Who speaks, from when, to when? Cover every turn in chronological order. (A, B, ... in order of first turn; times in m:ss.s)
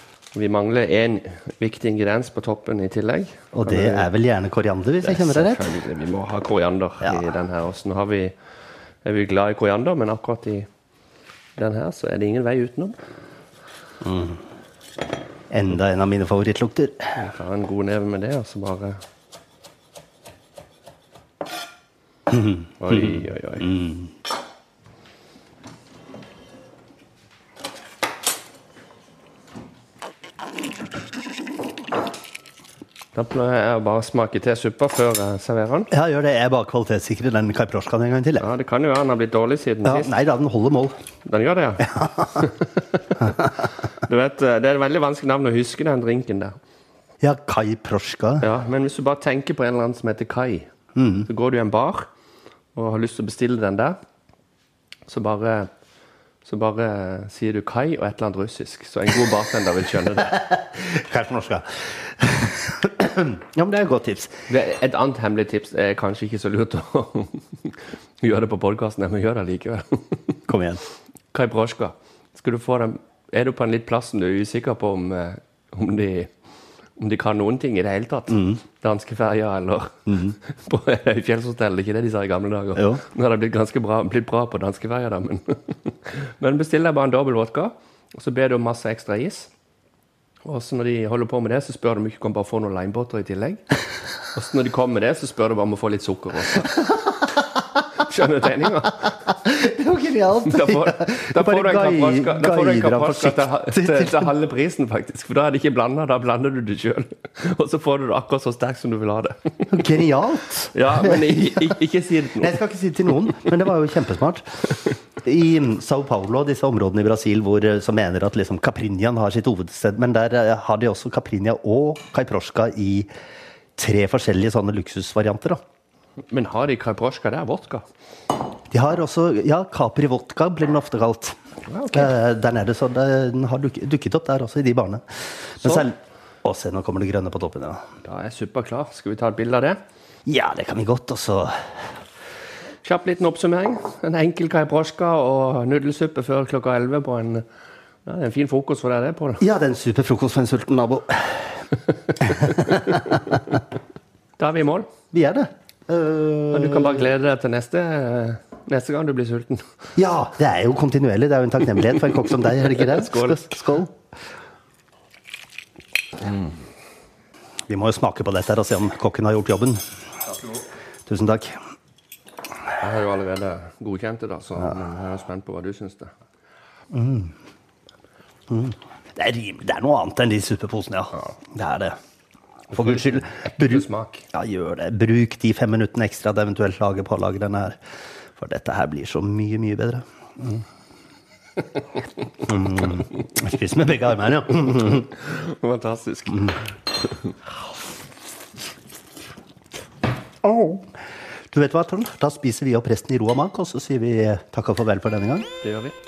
0:00.3-0:04.1 A
0:03.5-0:05.6 B
0:05.0-0:08.3 A
0:07.0-0:07.3 B
0:09.0-0:10.7 A
0:11.6-0:13.0 A
0:14.0-0:14.4 B
0:15.5-0:17.2 B
0:17.1-0:19.0 A
0:22.3-0:24.1 B
0:22.8-0:23.7 A
0:33.1-0:35.9 A
0:35.9-0:38.4 B
0:38.4-0:40.1 A
0:39.8-0:40.9 B
0:41.2-0:43.3 A
0:41.8-0:42.4 B
0:43.9-0:46.6 A
0:47.2-0:48.5 B
0:48.4-0:50.7 A
0:50.9-0:51.3 B
0:51.3-0:52.1 A
0:52.8-0:54.0 A
0:55.1-0:55.7 A
0:56.4-1:00.4 A
1:00.2-1:04.4 B
1:04.5-1:10.4 A
1:10.5-1:10.8 B
1:11.3-1:16.3 A
1:17.0-1:29.5 A
1:18.3-1:18.6 B
1:20.1-1:20.4 B
1:22.8-1:23.0 B
1:30.4-1:33.7 A
1:34.3-1:37.0 A
1:38.0-1:39.3 A
1:39.4-1:44.3 B
1:40.4-1:49.7 A
1:49.7-1:54.6 B
1:50.7-1:52.6 A
1:55.2-2:03.1 B
2:03.8-2:05.6 B
2:06.3-2:07.8 A
2:08.7-2:11.4 B
2:11.7-2:12.1 A
2:11.9-2:17.8 B
2:18.0-2:19.8 A
2:20.3-2:21.5 B
2:22.8-2:27.4 A
2:28.0-2:29.4 A
2:29.4-2:33.6 B
2:34.4-2:34.9 A
2:35.1-2:37.1 B
2:36.5-2:39.6 A
2:40.0-2:43.9 B
2:42.7-2:43.5 A
2:46.2-2:46.6 A
2:47.7-2:49.8 B
2:51.1-2:51.6 B
2:52.8-2:56.1 A
2:56.9-2:57.3 B
2:58.5-3:02.0 B
3:02.7-3:07.8 B
3:02.7-3:04.2 A
3:08.4-3:10.6 B
3:12.4-3:15.1 B
3:14.8-3:16.6 A
3:20.4-3:20.9 B
3:21.5-3:25.5 B
3:25.6-3:25.9 A